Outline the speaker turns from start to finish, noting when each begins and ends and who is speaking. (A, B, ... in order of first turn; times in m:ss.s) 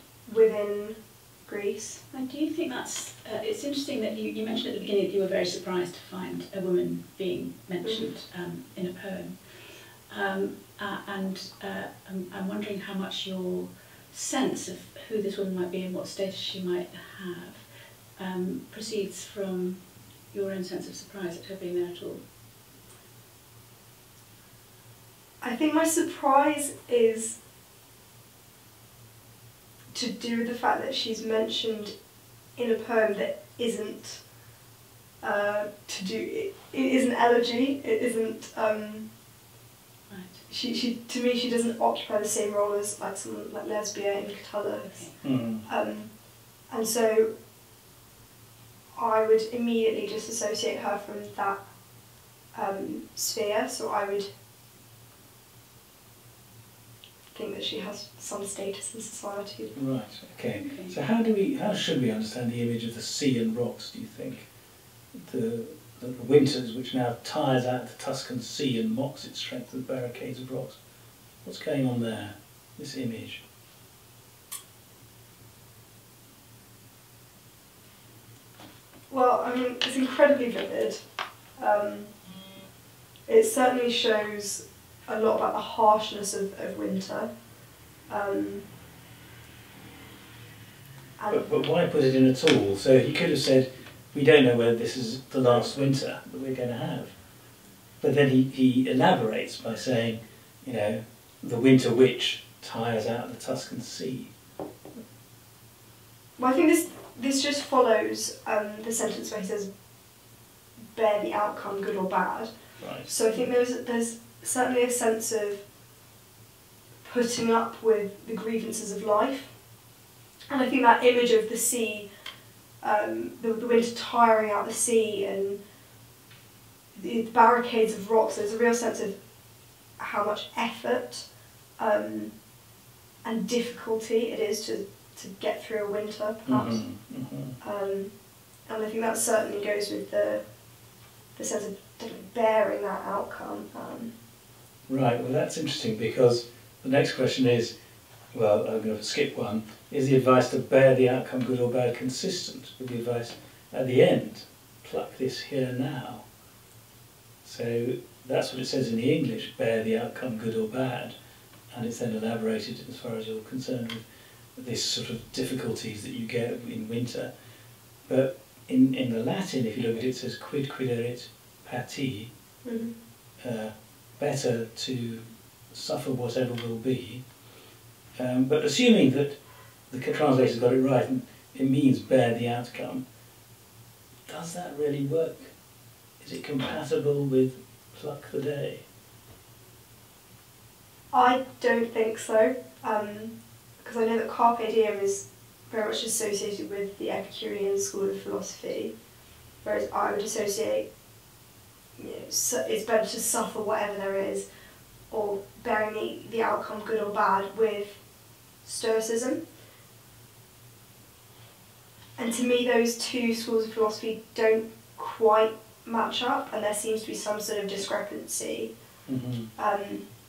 0:00.3-0:02.0 A
0:02.1-0:17.6 B
0:07.8-0:08.1 A
0:18.2-0:22.2 B
0:25.4-0:27.4 A
0:29.9-0:31.9 A
0:32.6-0:34.2 A
0:35.2-0:39.1 A
0:40.1-0:40.4 B
0:40.5-0:45.1 A
0:44.8-0:45.2 B
0:45.2-0:45.7 C
0:45.6-0:46.1 A
0:46.7-0:47.3 A
0:49.0-0:51.6 A
0:52.5-0:54.3 A
0:57.3-0:59.8 A
0:59.8-1:04.5 C
1:00.5-1:01.0 B
1:05.2-1:10.8 C
1:11.4-1:13.4 C
1:19.1-1:21.0 A
1:21.6-1:22.1 A
1:23.3-1:27.3 A
1:28.1-1:28.6 A
1:31.2-1:31.5 A
1:31.3-1:37.2 C
1:38.0-1:44.3 C
1:46.4-1:49.7 A
1:51.0-1:52.5 A
1:52.8-1:53.1 C
1:53.0-1:55.6 A
1:57.0-1:59.5 A
2:00.5-2:02.1 A
2:02.8-2:05.6 A
2:07.0-2:09.2 A
2:10.0-2:11.3 A
2:11.8-2:12.3 A
2:13.2-2:16.8 A
2:16.5-2:17.6 C
2:17.6-2:18.1 A
2:18.7-2:20.4 A
2:21.4-2:24.1 A
2:24.9-2:27.8 C
2:28.3-2:36.3 C
2:37.4-2:41.2 C
2:41.7-2:44.1 C
2:44.6-2:47.3 C
2:48.1-2:52.3 C
2:52.6-2:52.9 A
2:53.4-2:57.2 C
2:58.2-2:59.4 C
2:59.9-3:03.0 C
3:04.3-3:05.5 C
3:06.2-3:08.8 C
3:11.1-3:19.0 A
3:19.6-3:20.9 A
3:22.0-3:24.5 A
3:25.1-3:28.0 A
3:28.6-3:29.4 A
3:32.2-3:38.7 A
3:39.1-3:39.5 C
3:39.6-3:40.1 A